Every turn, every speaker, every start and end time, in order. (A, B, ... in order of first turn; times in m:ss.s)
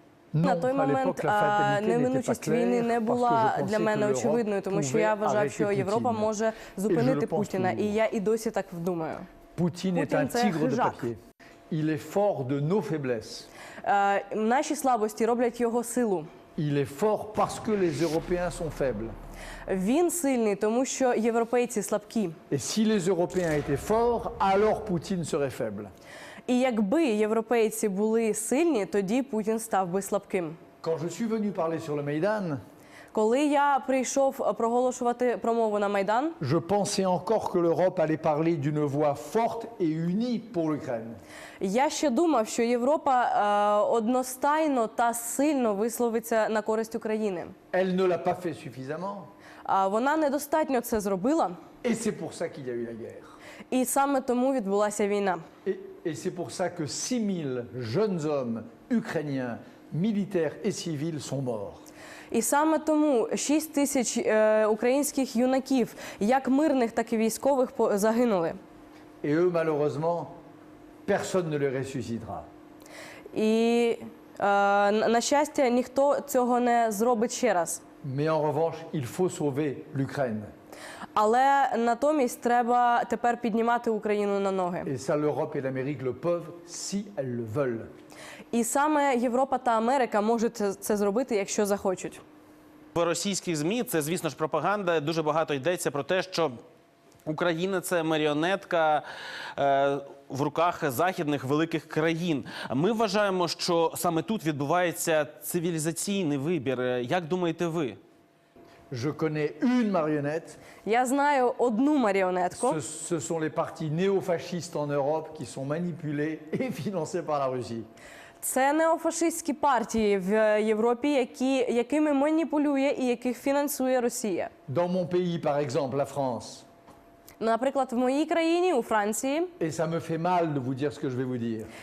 0:00.3-0:06.3 A
0:00.4-0:09.3 B
0:06.9-0:08.0 A
0:09.6-0:11.2 A
0:09.9-0:11.0 B
0:11.7-0:13.5 A
0:13.8-0:16.3 B
0:16.6-0:19.1 A
0:19.7-0:22.4 B
0:22.5-0:25.9 A
0:26.5-0:30.6 B
0:30.8-0:32.6 A
0:33.1-0:36.4 B
0:36.4-0:41.2 A
0:41.6-0:47.5 B
0:47.7-0:49.3 A
0:49.6-0:51.6 B
0:51.8-0:53.3 A
0:53.7-0:55.4 B
0:55.6-1:01.8 A
1:02.3-1:08.6 B
1:09.2-1:10.3 A
1:11.0-1:12.5 A
1:13.3-1:17.8 B
1:18.0-1:20.5 A
1:21.1-1:24.9 B
1:24.8-1:27.9 A
1:28.5-1:32.2 B
1:32.9-1:36.5 C
1:37.2-1:39.0 C
1:39.6-1:48.0 C
1:48.9-1:50.6 A
1:50.8-1:52.8 B
1:52.6-1:57.9 A
1:58.4-2:04.5 B
2:04.7-2:06.6 A
2:07.4-2:09.5 B
2:09.6-2:11.7 A